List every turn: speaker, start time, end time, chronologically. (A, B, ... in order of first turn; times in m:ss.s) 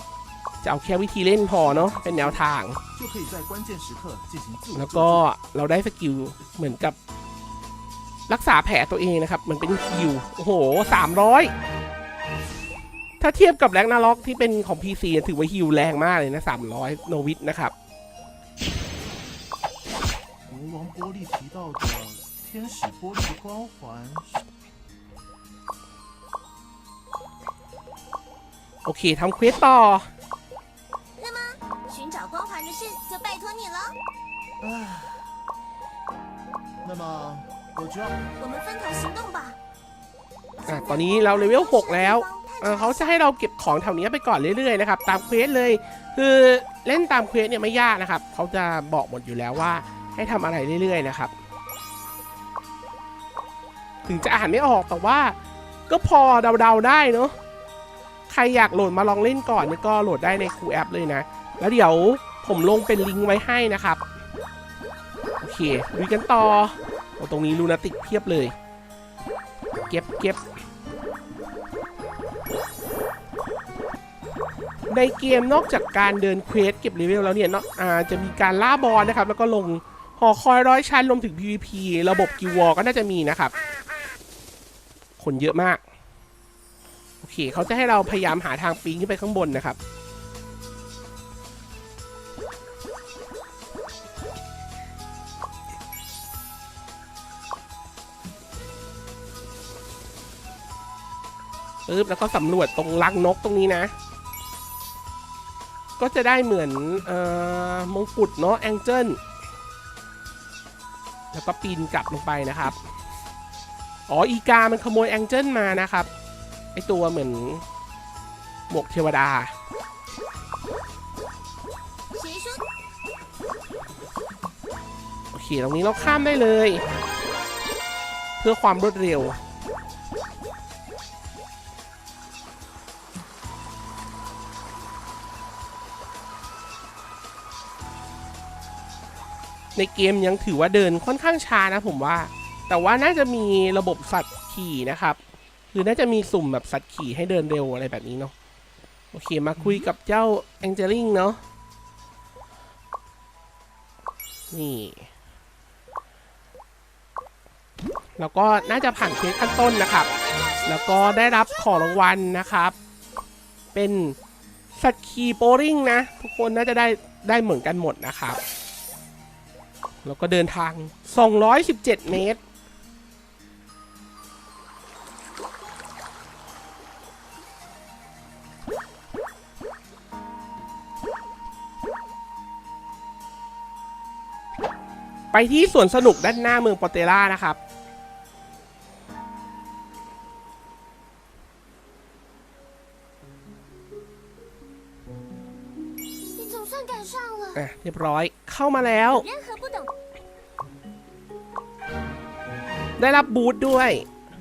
0:00.6-0:02.8 A
0:01.5-0:05.2 B
0:04.7-0:07.0 A
0:08.3-0:11.5 A
0:13.2-0:17.7 A
0:20.5-0:24.4 B
0:28.8-0:30.1 A
0:31.2-0:34.0 C
0:34.6-0:35.3 B
0:36.8-0:38.2 B
0:38.4-0:39.6 C
0:40.6-0:43.2 C
0:40.7-0:51.3 A
0:54.0-0:55.4 A
0:55.9-0:57.3 A
0:58.3-1:04.0 A
1:05.4-1:08.5 A
1:09.9-1:10.4 A
1:14.9-1:23.5 A
1:25.2-1:25.8 A
1:27.2-1:29.8 A
1:41.9-1:43.9 A
1:46.0-1:49.2 A
1:51.3-1:52.8 A
1:54.1-1:56.1 A
1:56.7-1:57.6 A
1:58.7-1:59.5 A
2:02.1-2:02.6 C
2:05.3-2:06.8 A
2:08.4-2:09.4 A
2:19.8-2:25.2 A
2:25.7-2:28.3 A
2:29.1-2:31.4 A
2:34.5-2:35.1 A
2:38.2-2:40.1 A
2:40.1-2:42.0 C
2:40.6-2:42.7 A
2:43.7-2:44.2 A
2:44.8-2:48.4 A
2:50.0-2:52.4 A
3:05.3-3:07.6 A
3:16.3-3:17.6 C
3:17.5-3:19.2 A
3:19.1-3:19.9 C
3:23.0-3:24.0 A